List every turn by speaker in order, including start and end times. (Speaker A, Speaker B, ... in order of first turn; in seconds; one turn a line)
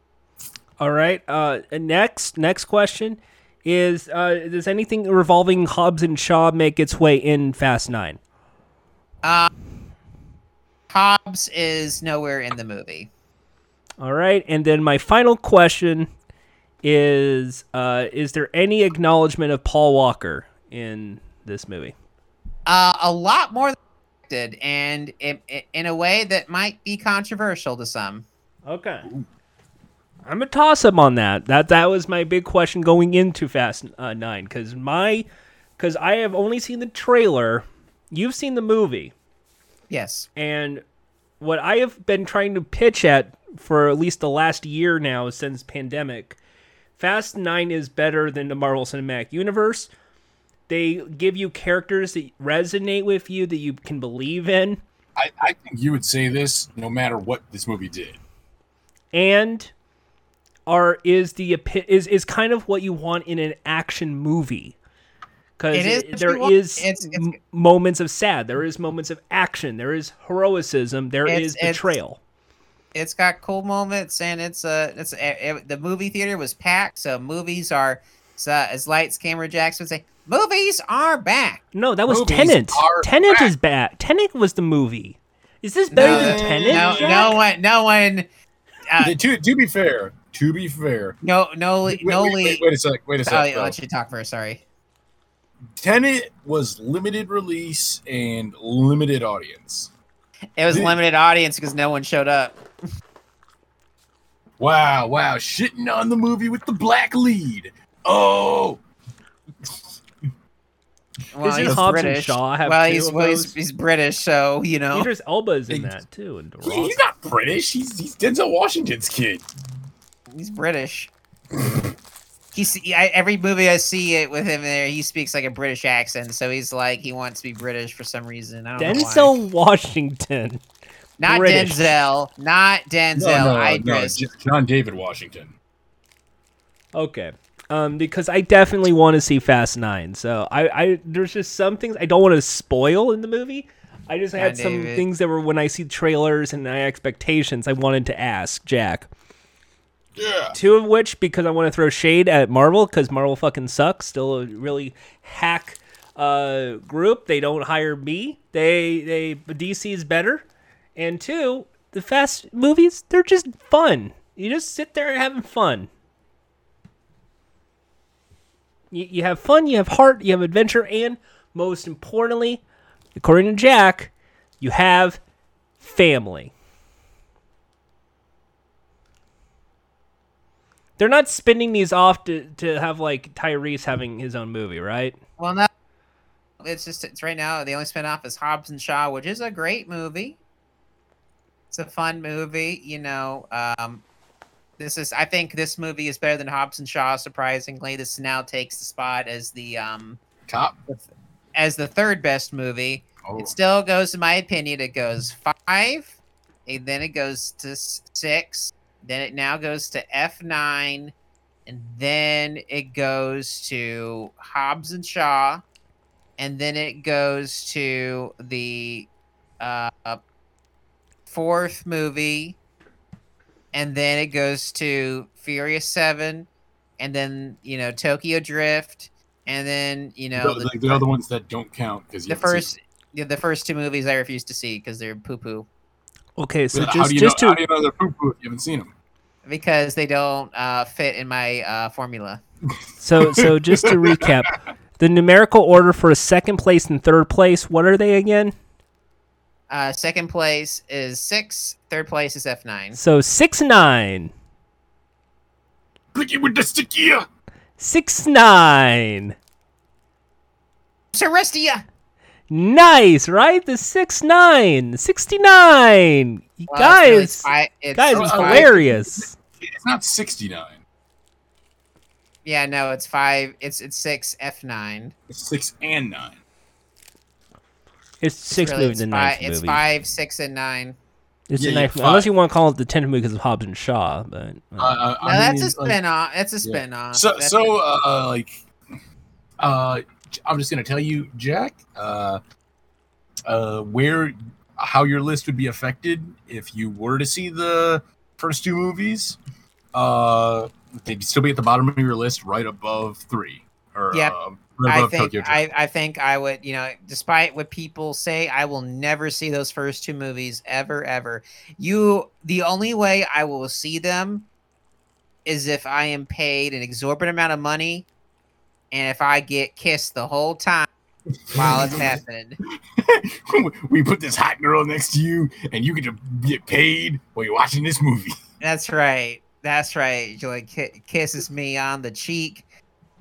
Speaker A: 0.8-8.2
Speaker B: 9.2-9.5
Speaker B: 10.9-13.1
Speaker A: 14.0-16.1
Speaker A: 16.8-21.9
Speaker B: 22.7-23.8
Speaker B: 24.3-28.2
Speaker A: 28.6-29.1
Speaker A: 30.2-35.2
Speaker A: 35.8-39.1
Speaker B: 39.9-40.3
Speaker A: 40.4-40.8
Speaker A: 41.4-46.4
Speaker A: 47.0-49.9
Speaker A: 50.7-54.8
Speaker C: 55.1-58.2
Speaker A: 59.1-59.7
Speaker A: 60.7-64.8
Speaker A: 65.6-72.2
Speaker B: 65.7-67.3
Speaker B: 71.3-71.8
Speaker B: 72.9-81.6
Speaker A: 81.7-87.4
Speaker C: 82.1-83.5
Speaker B: 85.9-88.2
Speaker C: 86.0-87.4
Speaker B: 88.9-89.1
Speaker C: 89.0-91.2
Speaker B: 91.2-92.6
Speaker C: 91.9-93.7
Speaker B: 93.2-94.6
Speaker C: 95.8-99.9
Speaker B: 100.6-102.6
Speaker C: 100.7-101.0
Speaker C: 104.6-108.8
Speaker B: 111.3-115.1
Speaker A: 111.4-113.5
Speaker A: 114.9-117.0
Speaker C: 115.7-116.0
Speaker C: 116.6-119.4
Speaker B: 120.3-121.1
Speaker B: 122.5-129.3
Speaker A: 128.8-130.6
Speaker B: 131.2-134.2
Speaker A: 131.2-131.9
Speaker C: 133.2-135.5
Speaker A: 136.9-149.1
Speaker B: 144.4-145.0
Speaker C: 150.2-150.6
Speaker A: 150.5-160.4
Speaker A: 160.9-165.9
Speaker A: 168.9-172.6
Speaker A: 173.2-175.2
Speaker A: 175.8-176.5
Speaker A: 181.0-185.2
Speaker B: 185.4-185.7
Speaker B: 186.6-190.4
Speaker B: 191.7-194.0
Speaker B: 194.8-200.2
Speaker C: 200.5-200.8
Speaker B: 201.5-206.2
Speaker C: 203.2-203.5
Speaker B: 206.7-211.1
Speaker B: 211.7-215.6
Speaker B: 216.4-219.1
Speaker B: 219.6-220.2
Speaker B: 221.3-222.6
Speaker B: 223.7-226.5
Speaker B: 227.0-231.0
Speaker C: 230.3-232.7
Speaker B: 232.3-235.7
Speaker A: 236.4-237.6
Speaker C: 236.7-238.9
Speaker B: 239.4-242.4
Speaker A: 243.0-248.5
Speaker C: 243.2-244.4
Speaker B: 249.7-253.0
Speaker A: 252.9-254.3
Speaker C: 256.1-257.3
Speaker A: 257.8-259.3
Speaker B: 261.1-261.8
Speaker A: 262.5-269.3
Speaker B: 266.7-268.7
Speaker C: 268.1-270.8
Speaker B: 272.4-275.1
Speaker C: 275.3-276.4
Speaker A: 278.2-279.8
Speaker B: 278.5-280.9
Speaker A: 281.5-285.0
Speaker C: 281.6-282.3
Speaker C: 284.8-286.0
Speaker B: 285.2-287.7
Speaker C: 286.6-288.6
Speaker C: 289.6-292.4
Speaker C: 293.4-299.4
Speaker C: 299.9-305.6
Speaker B: 304.9-314.5
Speaker B: 315.4-318.1
Speaker B: 318.9-320.9
Speaker C: 321.5-322.2
Speaker B: 321.5-322.6
Speaker C: 322.9-328.3
Speaker B: 328.6-332.6